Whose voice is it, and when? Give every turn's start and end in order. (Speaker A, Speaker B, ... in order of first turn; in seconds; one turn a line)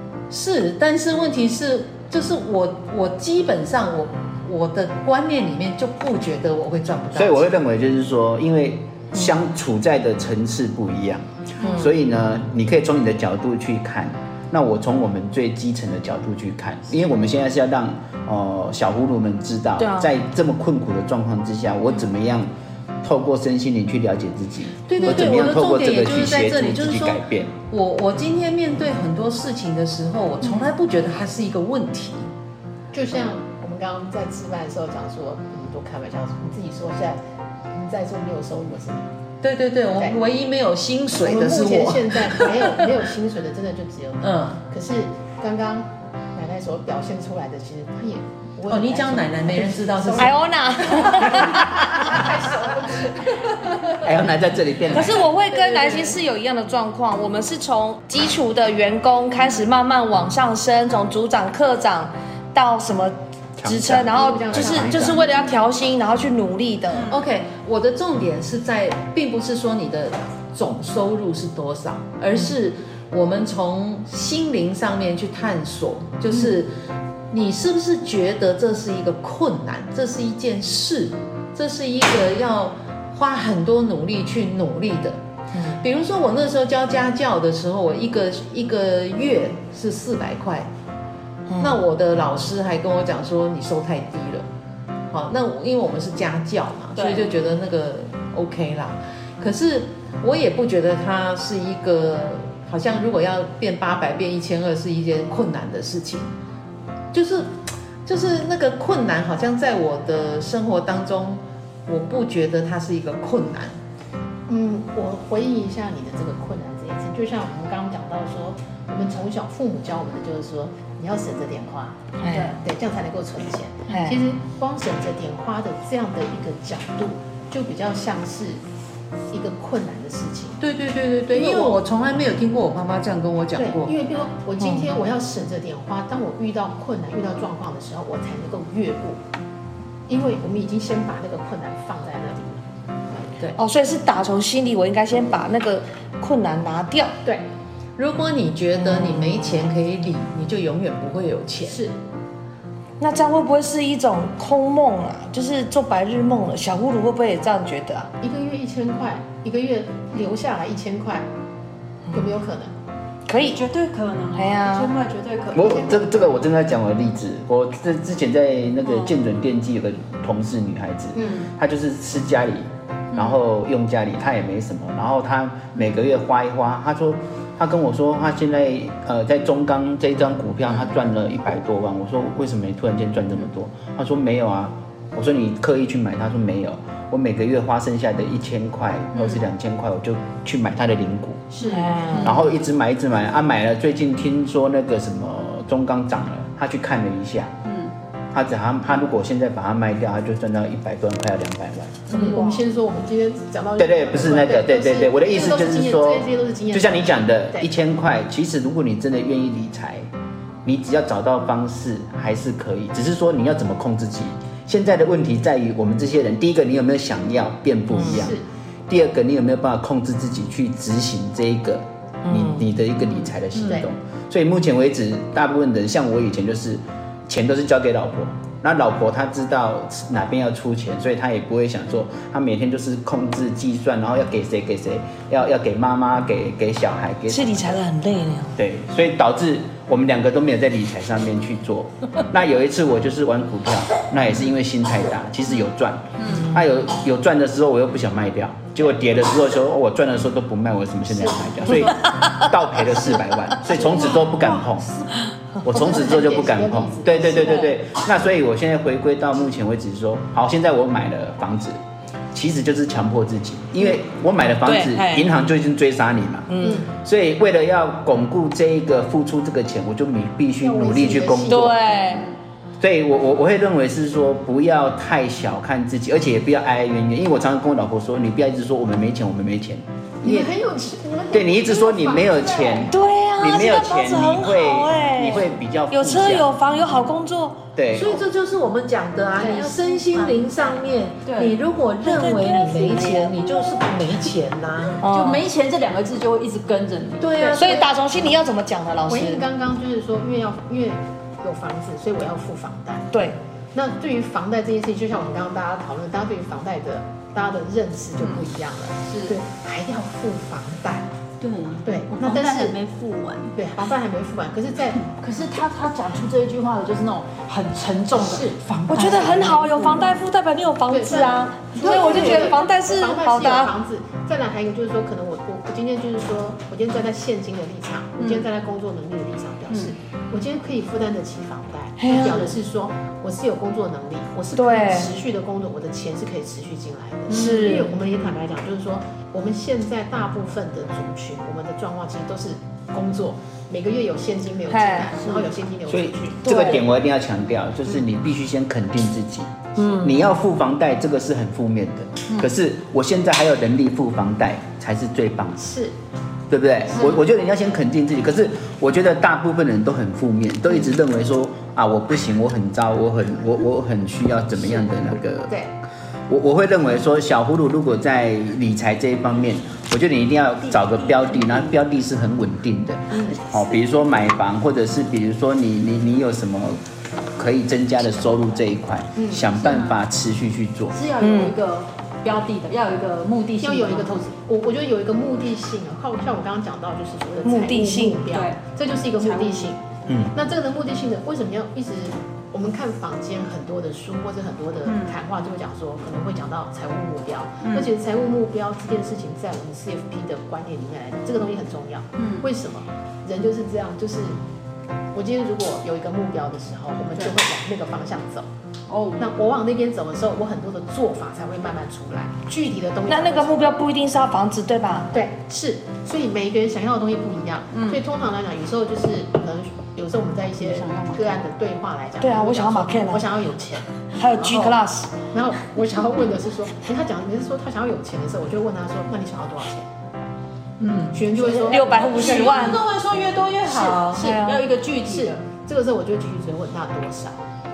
Speaker A: 0.3-7.5
Speaker B: 7.1-22.5
Speaker C: 11.6-11.9
Speaker C: 19.8-20.1
Speaker B: 23.0-27.5
Speaker A: 24.9-32.3
Speaker D: 30.4-30.7
Speaker E: 32.9-37.2
Speaker E: 37.7-39.1
Speaker A: 39.4-42.8
Speaker E: 41.2-53.3
Speaker A: 44.2-44.6
Speaker A: 48.7-50.4
Speaker C: 50.2-52.2
Speaker B: 54.0-55.3
Speaker C: 54.9-67.1
Speaker B: 63.6-65.2
Speaker E: 64.1-65.2
Speaker D: 66.9-67.2
Speaker A: 67.1-76.7
Speaker A: 77.3-85.2
Speaker C: 85.5-85.8
Speaker A: 85.7-90.7
Speaker C: 91.5-91.8
Speaker A: 91.6-94.5
Speaker A: 95.1-106.3
Speaker D: 97.0-97.2
Speaker A: 107.1-113.8
Speaker E: 114.5-128.6
Speaker C: 122.2-122.5
Speaker C: 123.9-124.2
Speaker E: 129.3-130.6
Speaker A: 130.6-133.9
Speaker E: 131.3-131.8
Speaker E: 133.5-139.2
Speaker C: 134.6-134.9
Speaker E: 140.1-142.6
Speaker C: 143.6-147.2
Speaker A: 148.0-151.8
Speaker E: 151.6-151.9
Speaker C: 153.0-158.1
Speaker E: 158.2-161.3
Speaker E: 162.1-162.7
Speaker C: 163.3-163.6
Speaker D: 163.4-165.9
Speaker C: 164.3-164.9
Speaker B: 165.5-191.5
Speaker E: 165.6-166.0
Speaker D: 168.8-169.1
Speaker E: 171.1-171.4
Speaker D: 189.1-189.4
Speaker D: 191.5-192.2
Speaker C: 191.7-192.4
Speaker B: 192.2-197.5
Speaker D: 197.6-197.9
Speaker B: 198.3-202.3
Speaker E: 202.1-207.7
Speaker D: 202.1-202.6
Speaker B: 203.8-210.1
Speaker B: 210.6-237.8
Speaker C: 217.9-218.2
Speaker E: 218.0-218.4
Speaker C: 222.2-222.6
Speaker C: 237.3-238.5
Speaker B: 238.5-254.9
Speaker D: 246.2-246.5
Speaker E: 251.1-252.0
Speaker C: 252.1-252.4
Speaker D: 253.7-255.2
Speaker B: 255.6-261.8
Speaker E: 255.7-257.7
Speaker B: 262.3-271.8
Speaker C: 264.6-265.3
Speaker C: 266.5-266.8
Speaker E: 266.6-266.9
Speaker E: 270.6-271.8
Speaker C: 271.5-272.3
Speaker B: 272.8-280.5
Speaker E: 280.2-282.9
Speaker B: 281.3-286.5
Speaker C: 282.9-287.6
Speaker B: 287.7-288.2
Speaker A: 287.9-295.0
Speaker E: 289.4-290.2
Speaker D: 291.2-291.6
Speaker D: 292.1-293.3
Speaker C: 295.0-295.4
Speaker D: 295.0-297.3
Speaker A: 297.2-297.9
Speaker E: 297.4-297.8
Speaker C: 297.5-299.4
Speaker E: 299.1-303.1
Speaker E: 303.7-311.1
Speaker D: 309.1-309.3
Speaker D: 311.4-313.5
Speaker E: 311.8-312.8
Speaker E: 313.5-315.0
Speaker D: 315.0-320.1
Speaker E: 318.2-318.6
Speaker C: 318.9-323.7
Speaker E: 320.9-346.8
Speaker D: 321.8-322.4
Speaker D: 328.2-328.4
Speaker C: 332.0-332.5
Speaker C: 334.5-335.1
Speaker C: 337.3-337.9
Speaker D: 337.3-337.8
Speaker C: 344.7-345.1
Speaker B: 345.9-355.6
Speaker C: 346.4-346.8
Speaker C: 349.8-350.2
Speaker E: 355.6-355.9
Speaker B: 356.5-365.6
Speaker B: 366.3-376.8
Speaker D: 371.2-371.6
Speaker E: 373.1-373.6
Speaker B: 377.4-381.0
Speaker E: 379.1-379.5
Speaker D: 379.6-380.0
Speaker D: 380.9-384.1
Speaker C: 381.2-381.5
Speaker E: 383.6-404.4
Speaker C: 387.4-388.3
Speaker D: 388.3-389.7
Speaker B: 390.1-390.3
Speaker D: 394.9-395.2
Speaker D: 397.6-397.9
Speaker D: 402.2-402.4
Speaker E: 405.1-408.5
Speaker D: 408.9-409.2
Speaker E: 409.2-413.8
Speaker C: 413.1-415.1
Speaker E: 415.1-424.8
Speaker D: 417.7-418.0
Speaker D: 420.6-421.4
Speaker C: 422.2-423.2
Speaker C: 424.1-425.1
Speaker E: 425.3-429.9
Speaker A: 430.8-431.1
Speaker D: 430.8-435.4
Speaker E: 431.1-432.4
Speaker C: 431.6-432.8
Speaker A: 431.9-432.7
Speaker A: 433.7-434.2
Speaker E: 433.7-437.4
Speaker C: 434.1-434.6